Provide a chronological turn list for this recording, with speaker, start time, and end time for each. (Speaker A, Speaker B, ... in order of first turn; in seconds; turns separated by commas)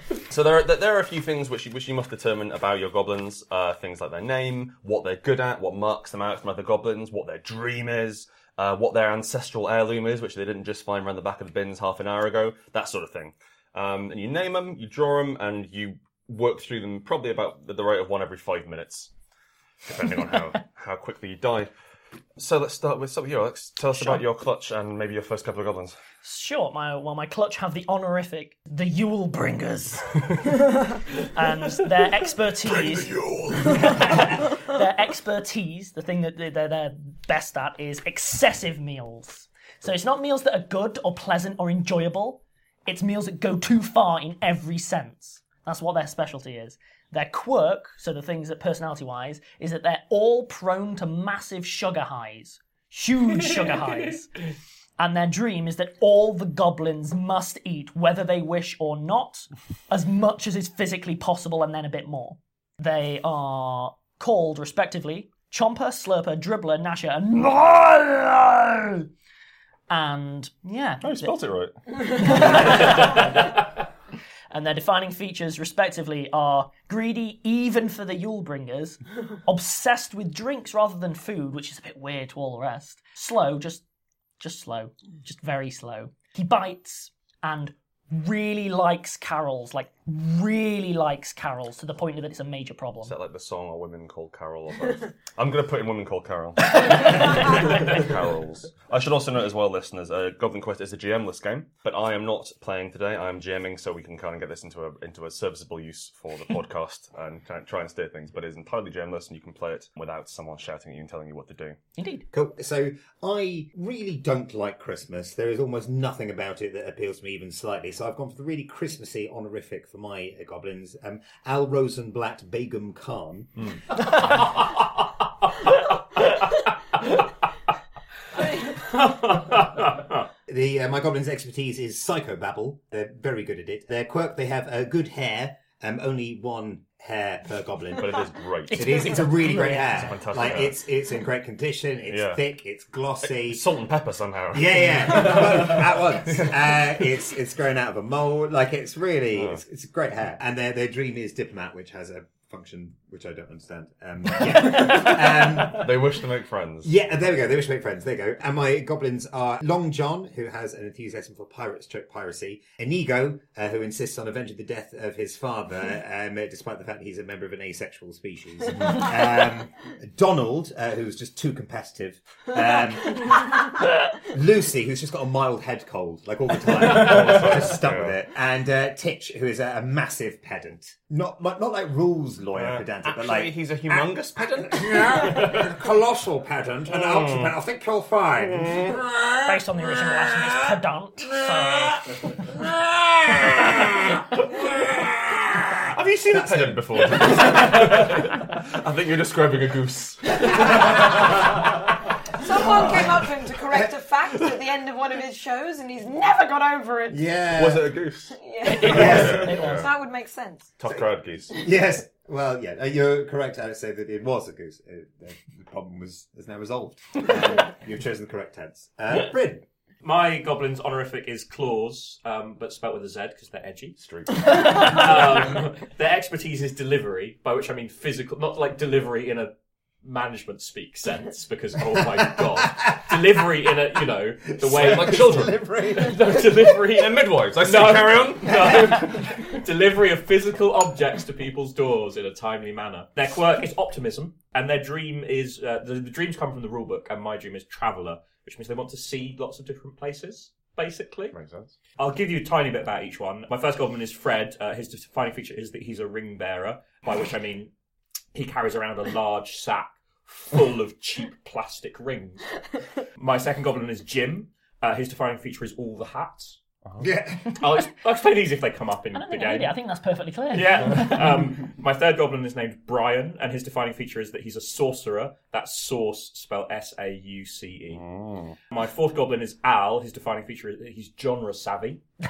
Speaker A: 0.3-19.1, Speaker A: 19.9-21.7, Speaker A: 22.4-26.0, Speaker B: 23.9-24.2, Speaker B: 26.2-30.1, Speaker B: 31.3-33.2, Speaker A: 32.6-33.9, Speaker B: 33.8-54.3, Speaker B: 55.0-69.1, Speaker B: 69.9-71.4, Speaker A: 71.0-71.8, Speaker B: 72.1-73.5, Speaker B: 74.5-83.8, Speaker B: 84.4-93.1, Speaker A: 93.0-111.8, Speaker B: 112.0-112.2, Speaker C: 112.3-123.5, Speaker D: 128.9-130.2, Speaker C: 130.5-143.6, Speaker A: 137.9-140.8, Speaker B: 138.7-140.1, Speaker A: 142.1-142.4, Speaker A: 143.2-146.5, Speaker C: 144.5-155.9, Speaker A: 149.3-149.6, Speaker A: 154.8-156.9, Speaker C: 156.8-173.6, Speaker C: 174.2-184.0, Speaker A: 176.6-178.2, Speaker A: 182.5-185.6, Speaker C: 184.6-188.8, Speaker A: 187.1-187.5, Speaker A: 188.6-188.9, Speaker B: 189.4-192.0, Speaker A: 195.9-201.4, Speaker C: 196.3-196.8, Speaker E: 202.4-207.4, Speaker C: 207.1-207.9, Speaker A: 207.5-209.9, Speaker E: 208.3-210.7, Speaker B: 208.6-209.9, Speaker C: 208.8-209.6, Speaker A: 210.8-211.5, Speaker C: 210.9-219.6, Speaker D: 220.0-251.3, Speaker A: 224.0-225.2, Speaker A: 234.6-235.7, Speaker C: 234.7-236.3, Speaker A: 236.2-239.0, Speaker A: 251.3-251.7, Speaker D: 252.0-257.7, Speaker D: 258.3-262.5, Speaker D: 263.1-266.6, Speaker C: 267.0-267.4, Speaker D: 267.6-269.7, Speaker B: 269.1-271.2, Speaker D: 270.5-278.0, Speaker A: 277.9-278.6, Speaker D: 278.7-282.0